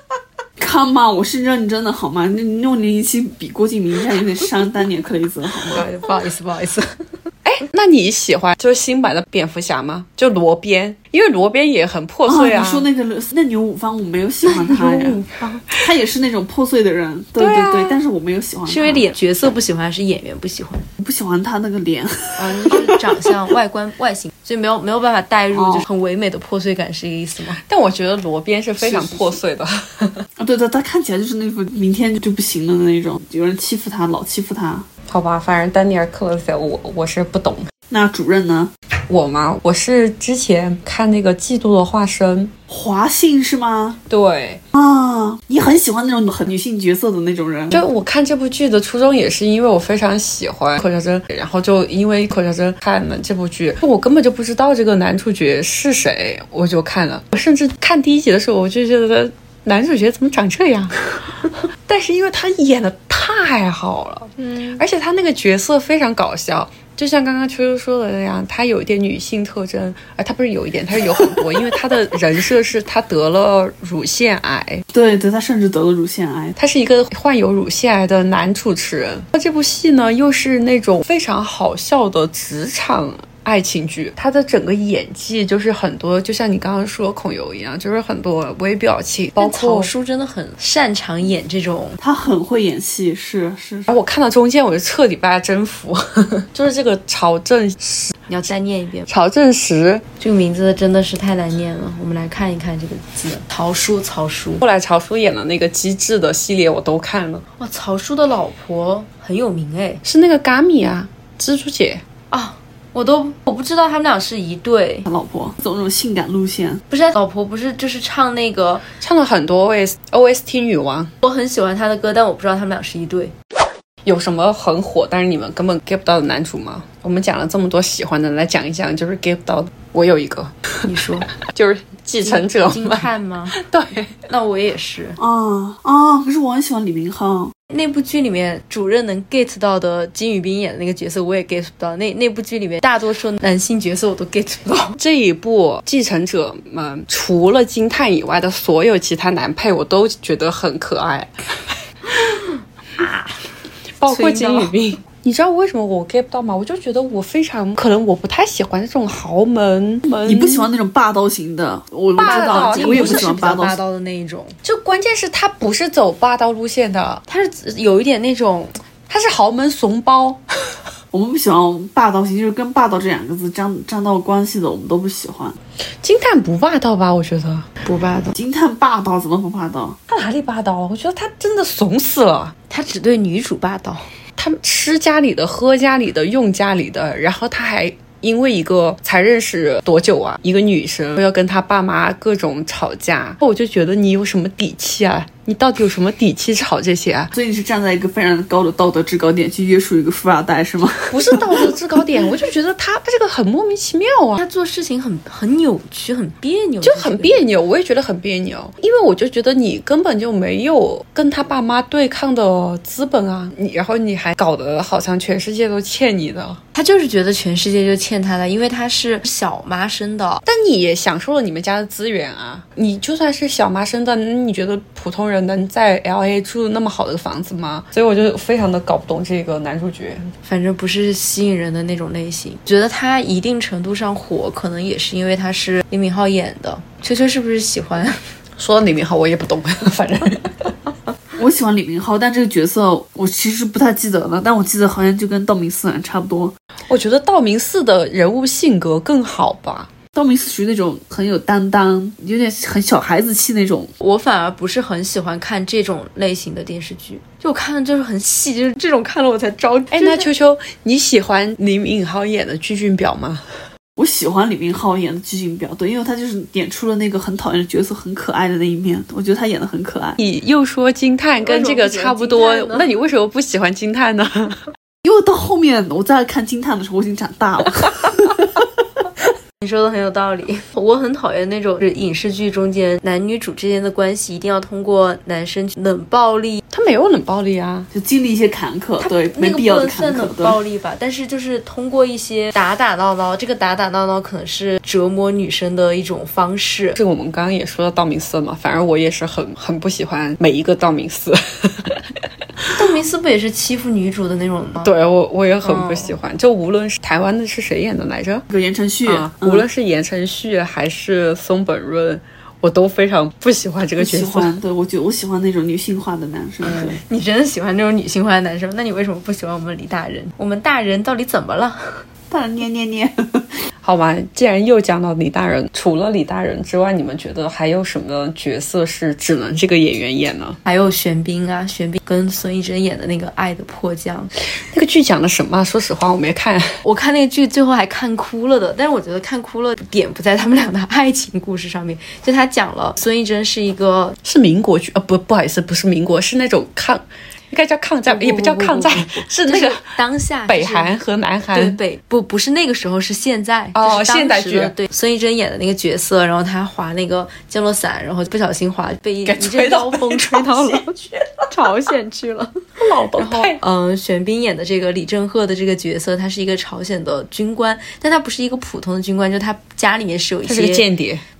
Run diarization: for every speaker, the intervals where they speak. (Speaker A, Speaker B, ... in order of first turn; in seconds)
Speaker A: 0.6-5.8, 12.2-19.1, 21.0-23.0, 25.5-25.8, 28.8-29.4, 30.4-34.9, 37.9-38.7, 42.7-44.0, 44.7-47.8, 74.9-76.5, 92.0-93.9, 115.0-116.8, 135.2-137.5, 160.2-163.8, 171.1-175.6, 178.3-180.0, 197.3-201.8, 241.3-246.5, 250.1-253.9, 264.0-270.2, 275.0-278.6, 287.9-290.6, 308.5-309.6, 314.0-317.0, 322.3-323.4
Speaker B: 5.7-6.9, 18.7-20.9, 22.4-27.6, 64.4-64.8, 89.4-92.0, 98.3-99.1, 100.2-104.6, 107.6-110.0, 112.3-115.0, 116.9-118.8, 121.2-123.3, 130.8-131.3, 132.2-133.6, 134.3-135.2, 137.7-145.0, 153.0-153.3, 154.1-154.7, 162.2-164.5, 167.3-168.8, 177.8-178.3, 182.7-184.0, 204.4-207.4, 216.7-220.4, 230.4-238.2, 254.0-260.3, 271.4-272.9, 279.6-286.6, 289.0-297.0, 302.7-304.9, 305.6-306.1, 317.1-322.0, 330.6-334.3, 336.8-344.1, 348.1-350.9, 351.5-360.9, 361.5-370.9
Speaker C: 7.4-12.9, 14.4-15.8, 17.4-18.0, 27.6-30.3, 35.1-37.7, 39.1-42.5, 44.1-44.6, 47.7-74.8, 76.5-89.9, 93.9-98.2, 99.1-100.0, 104.6-107.4, 110.0-112.0, 119.0-121.1, 124.0-130.5, 131.3-134.2, 145.0-151.3, 154.0-160.7, 162.2-163.6, 164.6-167.2, 169.1-170.8, 176.0-177.7, 180.1-182.5, 184.4-197.3, 201.1-204.4, 206.8-216.6, 220.4-230.3, 238.6-240.7, 246.9-249.9, 259.9-263.4, 270.2-274.6, 286.7-287.9, 296.9-302.2, 304.8-308.4, 309.0-314.5, 316.6-317.0, 323.8-330.6, 334.7-336.7, 344.2-349.9, 350.5-351.8, 353.7-354.7, 359.2-361.5, 362.8-363.6, 370.4-371.2